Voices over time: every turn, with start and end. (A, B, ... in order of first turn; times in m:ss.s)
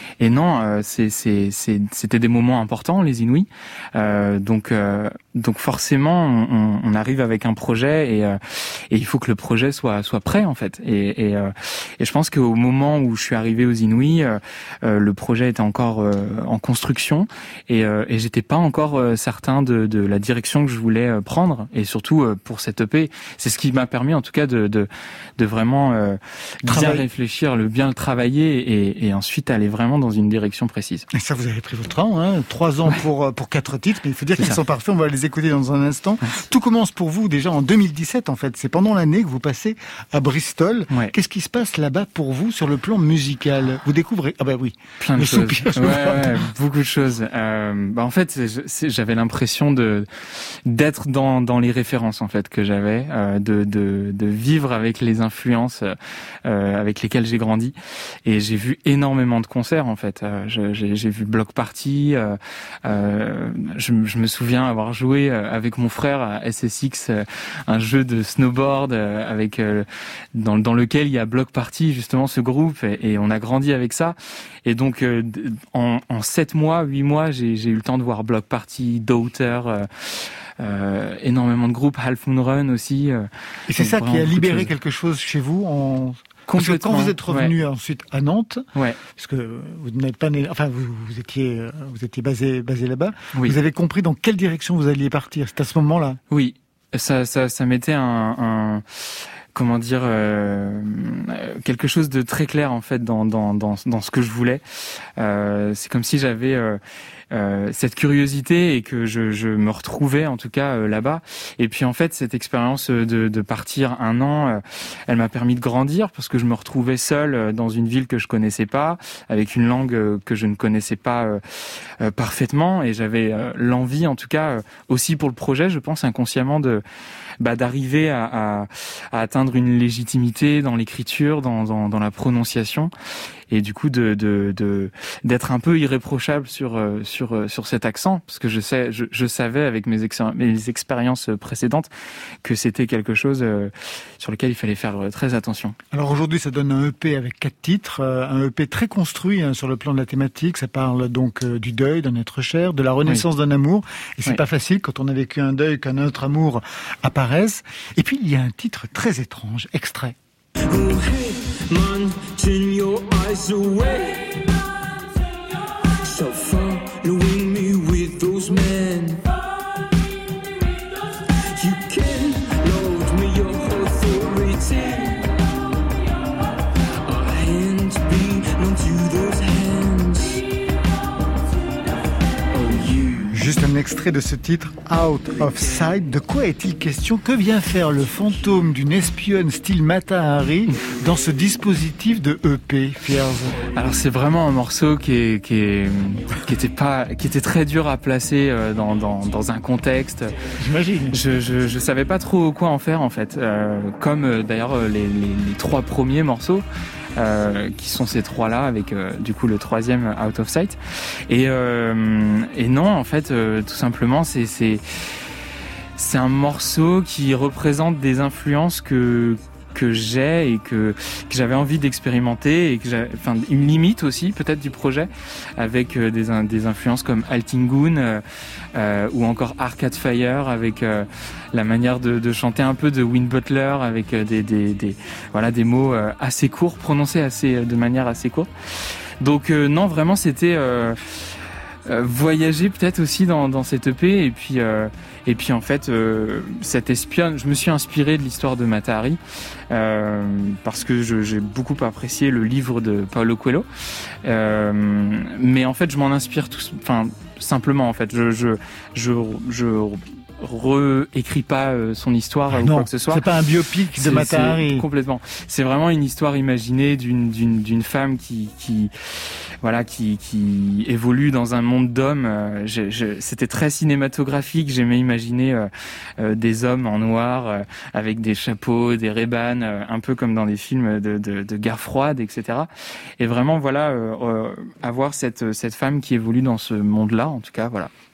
0:00.2-0:08.4 A
0:08.9-0:31.1 A
0:26.7-0:27.0 B
0:31.1-0:46.5 B
0:45.0-1:24.7 A
1:23.7-1:36.2 B
1:26.5-1:27.5 A
1:36.3-1:44.6 A
1:45.2-1:46.8 A
1:47.3-2:06.8 A
2:07.4-2:12.9 A
2:13.5-2:21.9 A
2:22.4-2:25.8 A
2:25.9-2:40.2 B
2:40.6-2:44.5 C
2:46.0-2:49.3 C
2:51.5-2:55.3 C
2:57.0-3:00.5 C
3:02.5-3:03.4 C
3:03.3-3:13.6 B
3:13.7-3:20.5 A
3:20.6-3:21.2 B
3:21.1-3:26.6 A
3:27.2-3:34.8 A
3:36.0-3:48.2 A
3:48.8-3:58.5 A
3:59.2-4:01.0 A
4:01.9-4:09.2 A
4:09.7-4:13.7 A
4:14.2-4:23.3 A
4:22.5-4:24.8 B
4:24.0-4:47.9 A